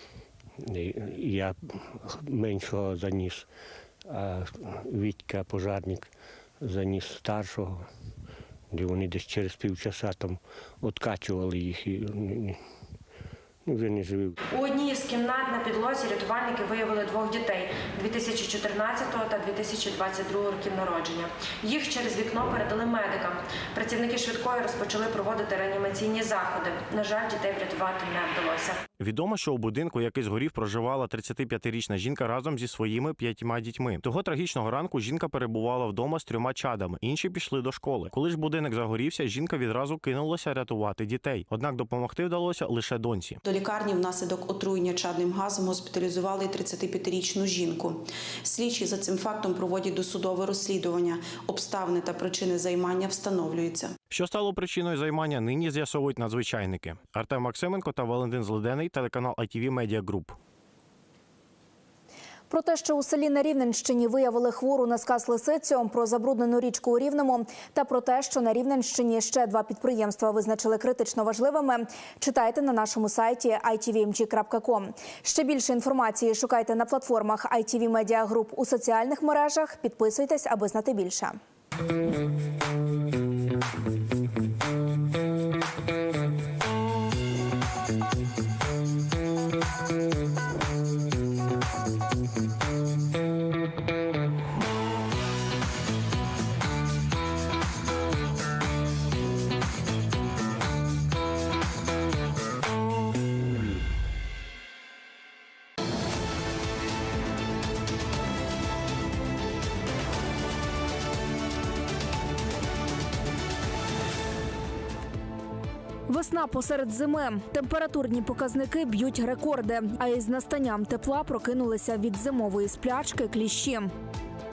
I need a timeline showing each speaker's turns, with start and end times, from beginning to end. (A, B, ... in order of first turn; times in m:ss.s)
0:00.7-0:03.4 A
0:04.1-0:06.1 A
0:06.6-0:07.8 A
0:08.7-0:12.5 A
0:13.7-0:14.3 A
0:14.5-0:28.8 B
0:29.0-0:43.4 C
0:43.6-0:48.0 D
0:48.5-0:53.9 D
0:54.1-1:00.4 C
1:02.5-1:21.4 E
1:56.1-2:03.9 E